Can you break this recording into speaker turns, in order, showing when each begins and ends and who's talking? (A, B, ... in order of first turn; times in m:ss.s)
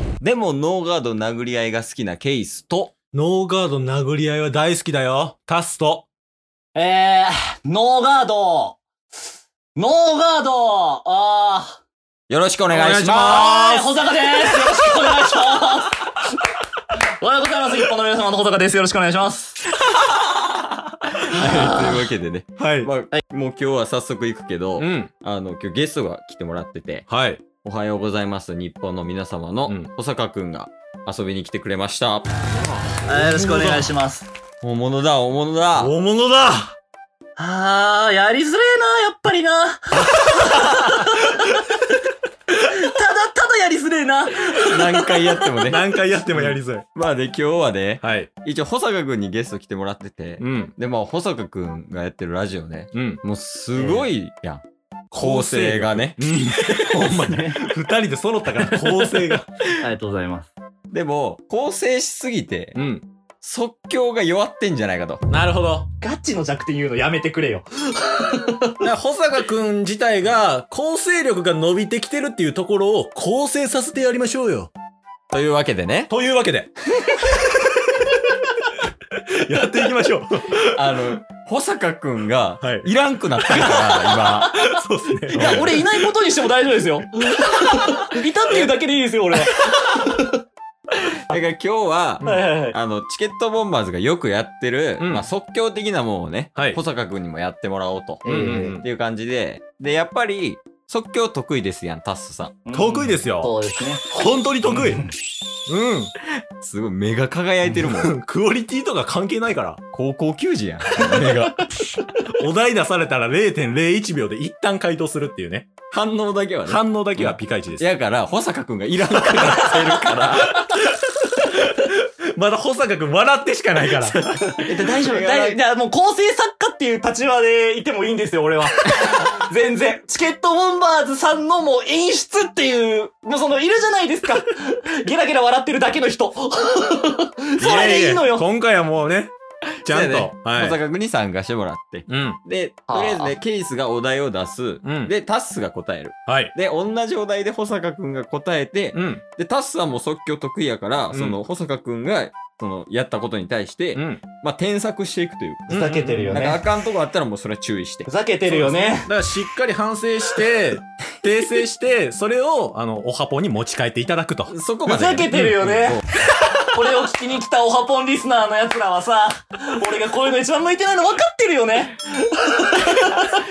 0:00.2-0:02.9 A
0:03.1-0:06.1 B
0:06.8-0:08.8 C
0:09.8-0:11.8 C
0:12.3-0:13.4 A
0:12.7-0:13.9 B
0:13.1-0:16.2 C
0:17.2-0:19.6 C
0:21.1-0:27.1 A
0:21.3-0:22.0 C
0:22.6-0:22.9 B
0:24.8-0:25.1 B
0:27.1-0:27.4 B
0:27.6-0:32.3 A
0:32.6-0:33.9 B
0:33.1-0:34.3 C
0:34.6-0:35.9 A
0:35.8-0:36.8 B
0:37.4-0:41.8 C
0:42.5-0:45.4 C
0:44.6-0:54.6 A
0:45.6-0:46.9 B
0:48.0-0:48.3 B
0:50.4-0:50.7 B
0:52.9-0:53.2 B
0:53.8-0:54.0 C
0:55.1-0:59.5 B
0:55.2-0:56.2 A
0:57.1-0:57.6 C
0:59.8-1:00.5 C
1:00.9-1:02.8 A
1:02.8-1:03.0 B
1:03.4-1:05.2 A
1:05.3-1:05.9 B
1:06.0-1:08.8 C
1:08.8-1:14.7 B
1:15.3-1:16.1 A
1:16.1-1:16.7 B
1:19.2-1:21.0 B
1:20.6-1:24.6 A
1:22.6-1:22.9 B
1:23.4-1:26.0 B
1:24.2-1:30.4 C
1:25.4-1:25.6 A
1:31.3-1:42.6 A
1:32.2-1:32.5 B
1:32.2-1:32.8 C
1:35.0-1:35.3 B
1:38.2-1:38.8 C
1:38.3-1:38.8 B
1:42.6-1:44.0 C
1:42.7-1:43.5 B
1:44.1-1:45.0 B
1:45.7-1:46.1 B
1:46.6-1:48.2 A
1:47.7-1:49.8 B
1:49.9-1:51.7 A
1:52.3-1:55.7 B
1:55.9-2:00.6 A
1:56.7-1:57.9 B
1:59.3-1:59.8 B
2:00.5-2:04.2 B
2:04.0-2:05.6 A
2:04.5-2:18.5 C
2:17.6-2:19.3 B
2:19.8-2:38.1 A
2:19.8-2:20.8 B
2:22.1-2:22.4 B
2:22.9-2:23.4 C
2:24.8-2:25.1 B
2:26.3-2:26.5 B
2:28.9-2:29.2 B
2:31.1-2:31.4 B
2:33.9-2:34.2 B
2:35.7-2:36.5 B
2:35.7-2:36.6 C
2:38.1-2:39.1 C
2:38.5-2:44.5 B
2:41.3-2:41.6 A
2:44.5-2:46.0 A
2:44.9-2:53.4 C
2:45.3-2:45.6 B